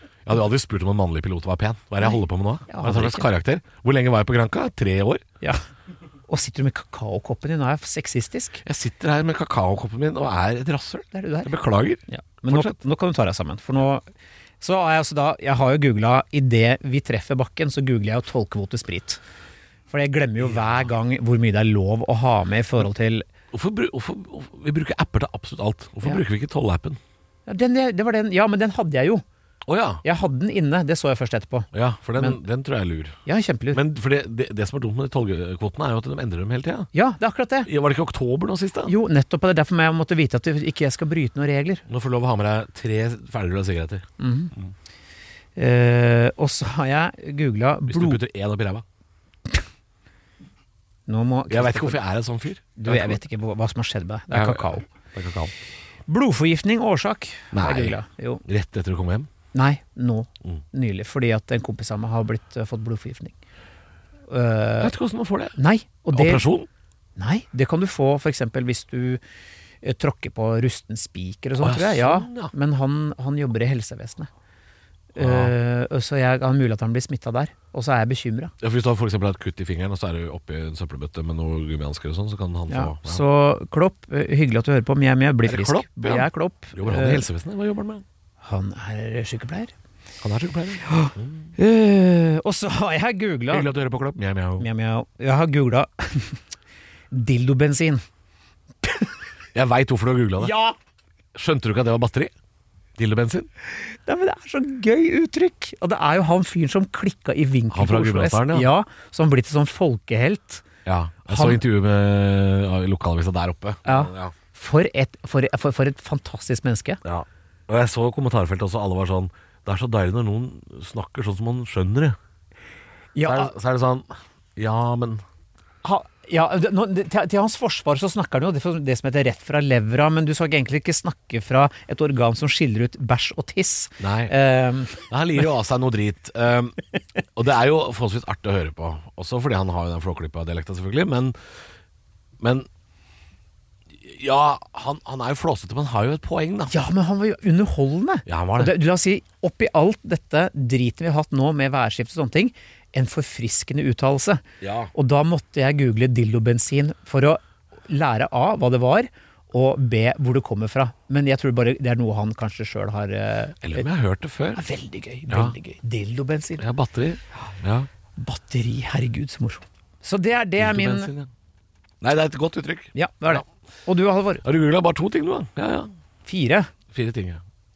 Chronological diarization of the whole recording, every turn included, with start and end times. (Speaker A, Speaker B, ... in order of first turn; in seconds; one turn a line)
Speaker A: 0.3-5.2
Speaker B: 2.0-3.3
Speaker B: 6.3-8.6
Speaker A: 8.6-12.8
Speaker B: 11.1-11.5
Speaker B: 12.1-14.0
Speaker B: 14.6-19.2
Speaker B: 19.9-23.3
Speaker A: 23.5-27.0
Speaker B: 27.5-29.2
Speaker A: 29.7-30.0
Speaker B: 30.0-32.4
Speaker A: 31.7-33.2
Speaker B: 33.3-33.8
Speaker A: 33.7-36.9
Speaker B: 36.9-37.7
Speaker A: 37.7-38.9
Speaker B: 38.9-41.8
Speaker A: 41.9-44.7
Speaker B: 44.2-44.5
Speaker B: 45.6-48.2
Speaker A: 47.9-48.9
Speaker B: 51.1-52.0
Speaker A: 51.5-53.2
Speaker B: 52.8-54.9
Speaker A: 54.3-55.5
Speaker B: 56.1-58.4
Speaker A: 57.5-59.3
Speaker B: 59.5-63.4
Speaker B: 64.3-64.9
Speaker A: 64.8-65.6
Speaker B: 65.6-66.5
Speaker A: 66.1-66.7
Speaker B: 67.2-69.2
Speaker B: 69.8-74.3
Speaker A: 71.6-72.5
Speaker B: 75.2-78.5
Speaker A: 75.2-75.5
Speaker A: 78.6-83.2
Speaker B: 82.7-87.3
Speaker A: 85.4-88.0
Speaker B: 88.4-89.7
Speaker A: 90.2-91.5
Speaker B: 90.8-93.7
Speaker A: 93.5-94.7
Speaker B: 94.6-96.4
Speaker B: 97.1-98.0
Speaker B: 98.8-99.1
Speaker A: 99.5-100.5
Speaker B: 100.4-100.8
Speaker A: 101.3-102.3
Speaker A: 103.0-103.5
Speaker B: 103.7-110.7
Speaker A: 107.7-108.7
Speaker A: 110.8-114.3
Speaker B: 111.3-111.6
Speaker B: 113.8-117.0
Speaker A: 117.0-122.2
Speaker B: 123.2-123.5
Speaker A: 123.2-125.2
Speaker B: 125.8-135.1
Speaker A: 134.0-134.3
Speaker A: 135.0-136.8
Speaker A: 137.3-141.4
Speaker A: 142.4-142.7
Speaker A: 143.9-146.7
Speaker B: 146.7-154.4
Speaker A: 148.3-148.8
Speaker A: 154.6-154.9
Speaker B: 154.9-163.8
Speaker A: 163.6-164.6
Speaker B: 164.6-166.7
Speaker A: 165.3-165.6
Speaker A: 166.6-167.9
Speaker B: 168.2-171.1
Speaker A: 170.6-171.3
Speaker A: 172.0-173.4
Speaker B: 172.9-174.4
Speaker A: 174.4-175.9
Speaker B: 176.2-176.7
Speaker A: 176.9-177.4